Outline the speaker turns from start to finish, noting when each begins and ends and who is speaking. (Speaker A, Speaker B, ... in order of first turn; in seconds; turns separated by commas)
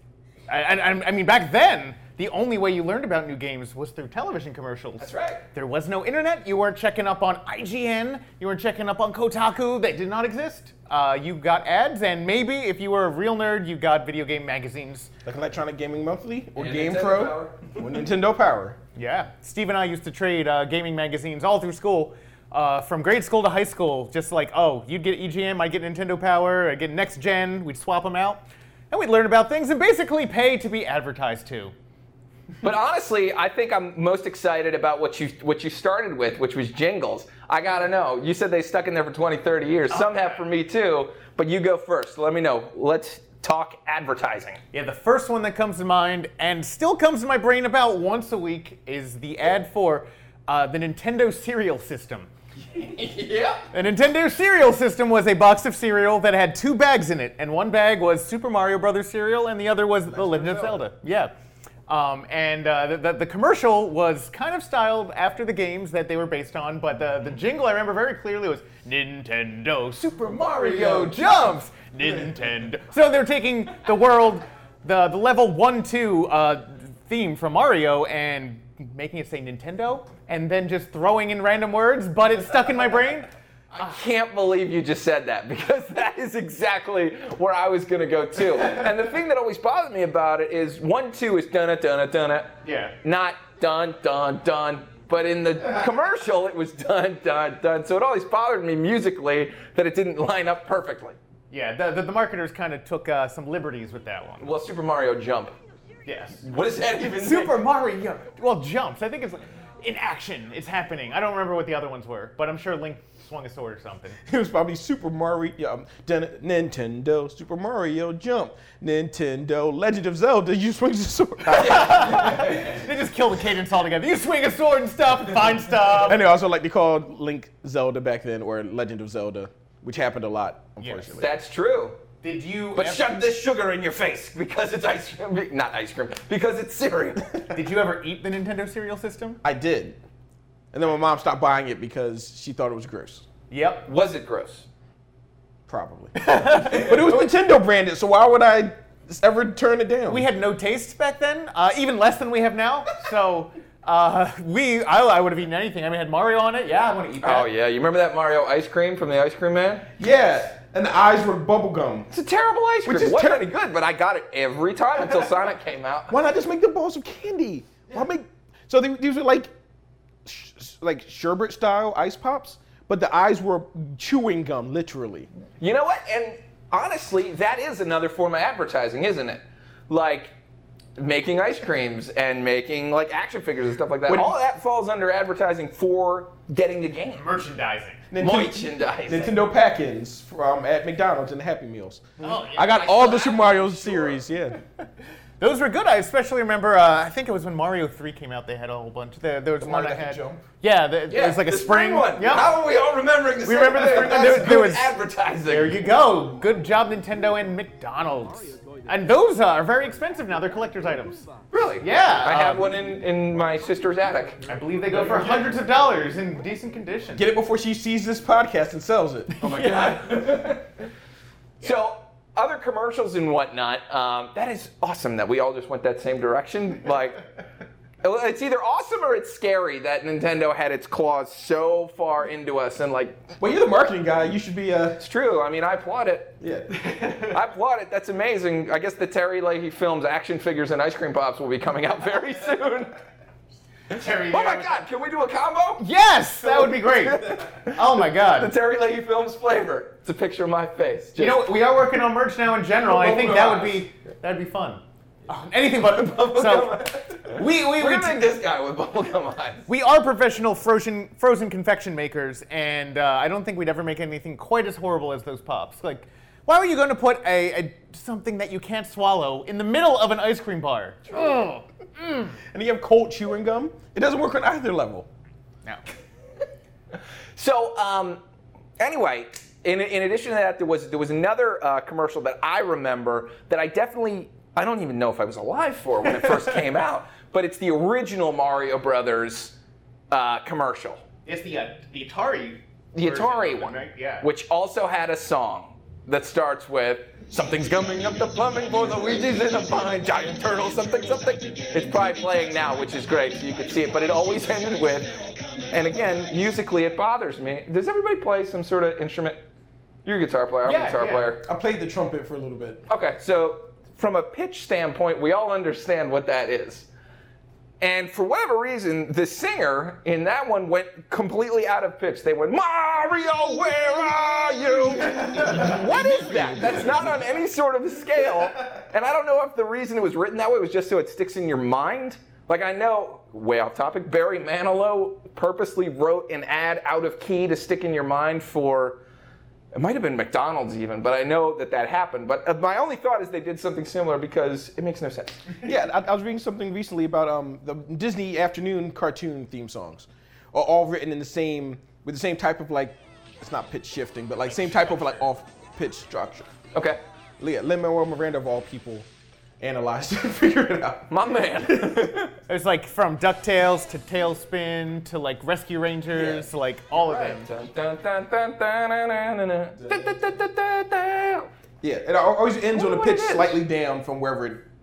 Speaker A: 0.5-15.1, Speaker B: 5.0-5.4, Speaker C: 15.2-18.8, Speaker B: 16.6-17.8, Speaker A: 18.9-31.7, Speaker B: 32.6-44.6, Speaker A: 39.9-40.4, Speaker A: 44.7-52.3, Speaker B: 52.7-53.7, Speaker A: 53.7-61.3, Speaker C: 60.0-60.8, Speaker A: 61.9-83.3, Speaker B: 70.2-71.6, Speaker B: 83.7-101.2, Speaker A: 92.6-92.9, Speaker A: 101.5-104.5, Speaker B: 104.4-105.5, Speaker A: 106.0-106.4, Speaker B: 106.4-107.5, Speaker A: 107.0-114.2, Speaker C: 114.2-122.5, Speaker A: 121.5-126.2, Speaker B: 121.8-122.6, Speaker C: 126.0-131.3, Speaker A: 130.8-131.2, Speaker B: 131.2-132.0, Speaker A: 132.2-133.1, Speaker B: 132.8-137.5, Speaker A: 137.5-139.4, Speaker C: 139.4-140.0, Speaker C: 140.7-143.3, Speaker A: 143.5-143.9, Speaker B: 143.8-144.7, Speaker C: 145.7-150.3, Speaker A: 146.2-147.0, Speaker A: 150.1-157.5, Speaker B: 157.2-159.9, Speaker C: 160.0-162.1, Speaker B: 162.1-166.2, Speaker C: 162.8-163.5, Speaker C: 166.1-169.5, Speaker C: 170.2-175.3, Speaker B: 175.6-180.3, Speaker B: 181.0-187.3, Speaker C: 184.1-184.3, Speaker A: 187.2-188.0, Speaker C: 188.1-194.6, Speaker B: 188.2-189.5, Speaker A: 192.2-192.8, Speaker B: 192.3-194.2, Speaker A: 195.4-202.5, Speaker C: 199.6-200.4, Speaker B: 201.1-205.8, Speaker A: 203.4-204.9, Speaker A: 205.4-211.3, Speaker B: 211.5-214.4, Speaker A: 211.8-212.7, Speaker A: 214.5-217.2, Speaker C: 214.9-215.5, Speaker C: 217.1-219.3, Speaker B: 219.4-220.7, Speaker A: 219.4-220.0, Speaker B: 221.6-227.2, Speaker B: 228.0-233.3, Speaker C: 233.4-235.0, Speaker B: 235.0-236.4, Speaker C: 236.4-237.3, Speaker B: 237.3-243.0, Speaker A: 243.9-244.8, Speaker B: 244.2-245.8, Speaker A: 245.8-248.5, Speaker B: 246.4-251.5, Speaker A: 251.2-258.3, Speaker B: 252.8-253.8, Speaker B: 255.9-259.7, Speaker A: 259.7-272.3, Speaker B: 271.1-271.4, Speaker C: 272.5-275.1, Speaker B: 277.4-278.2, Speaker B: 278.8-289.6, Speaker B: 290.1-291.0, Speaker A: 291.2-294.3, Speaker B: 292.9-305.1, Speaker B: 305.7-309.4, Speaker B: 310.0-311.4, Speaker A: 310.6-311.3, Speaker C: 311.4-312.8, Speaker B: 312.9-316.9, Speaker B: 317.8-339.0, Speaker A: 325.4-325.7, Speaker C: 325.6-327.2, Speaker B: 339.7-345.6, Speaker C: 345.6-356.5, Speaker B: 356.7-357.0, Speaker C: 357.4-359.0, Speaker C: 359.6-362.1, Speaker B: 361.1-362.4, Speaker A: 362.5-367.5, Speaker B: 367.0-371.5, Speaker C: 369.8-370.1, Speaker C: 371.8-374.6, Speaker B: 372.7-373.6